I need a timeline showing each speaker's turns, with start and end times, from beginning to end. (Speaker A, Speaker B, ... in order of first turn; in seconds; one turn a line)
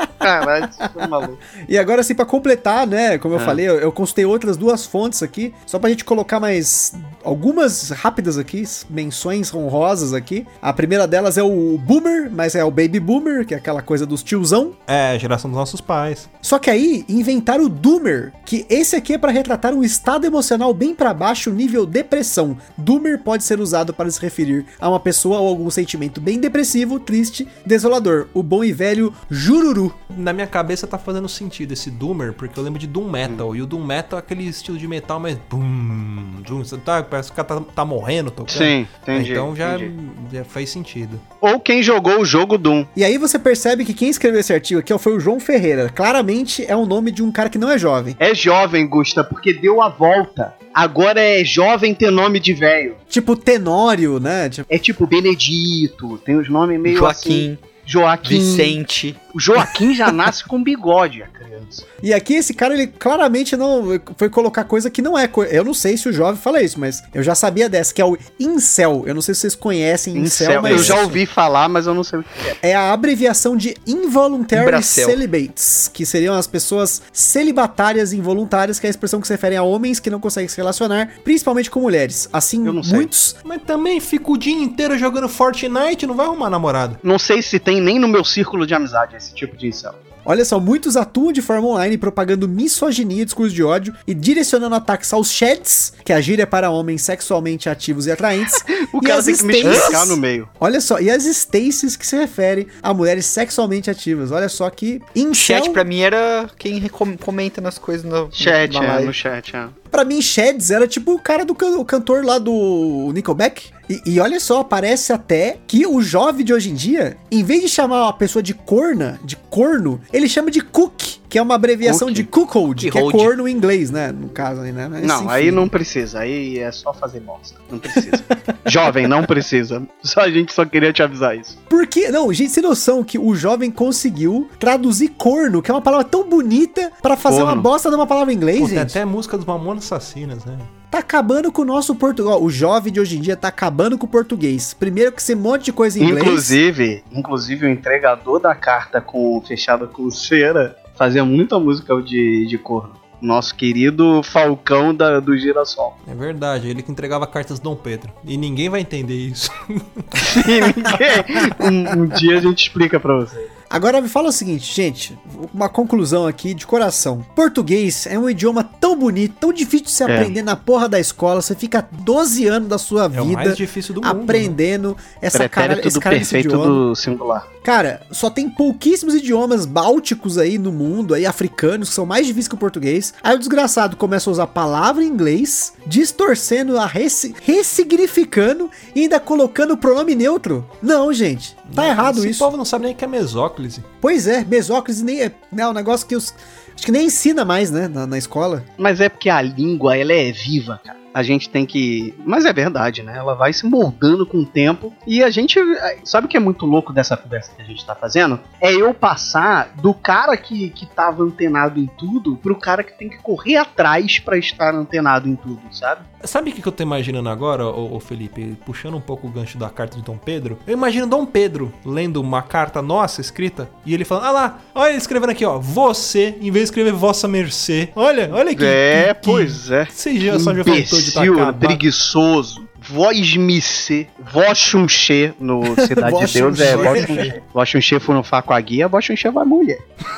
Speaker A: 0.2-1.4
Speaker B: 1.6-14.8
Speaker C: 14.9-16.3
Speaker B: 16.4-30.0
Speaker C: 30.1-41.2
Speaker A: 38.5-39.9
Speaker A: 41.4-42.9
Speaker B: 42.9-48.2
Speaker A: 48.2-53.0
Speaker B: 53.1-54.7
Speaker A: 54.7-58.8
Speaker D: 56.8-57.6
Speaker D: 58.2-59.6
Speaker A: 59.3-61.9
Speaker B: 62.0-71.0
Speaker A: 70.1-72.6
Speaker D: 70.6-71.2
Speaker B: 72.6-83.3
Speaker D: 74.5-75.2
Speaker A: 82.6-83.1
Speaker C: 83.4-87.0
Speaker A: 87.0-90.0
Speaker B: 90.2-105.8
Speaker A: 98.7-100.5
Speaker D: 99.6-100.0
Speaker D: 105.3-109.1
Speaker A: 108.3-109.7
Speaker B: 109.9-125.7
Speaker D: 121.8-122.2
Speaker D: 122.8-123.3
Speaker A: 125.0-131.6
Speaker B: 131.7-139.0
Speaker A: 137.2-137.7
Speaker C: 138.6-140.7
Speaker B: 140.9-146.6
Speaker A: 146.0-155.9
Speaker C: 156.1-160.4
Speaker A: 160.2-163.5
Speaker B: 161.1-162.2
Speaker B: 163.7-176.8
Speaker A: 170.1-170.3
Speaker C: 173.1-174.6
Speaker A: 175.3-177.4
Speaker B: 177.6-192.5
Speaker C: 191.7-193.9
Speaker B: 194.0-198.7
Speaker A: 198.8-216.1
Speaker C: 216.2-231.8
Speaker A: 228.5-239.8
Speaker B: 235.7-237.3
Speaker C: 236.6-237.3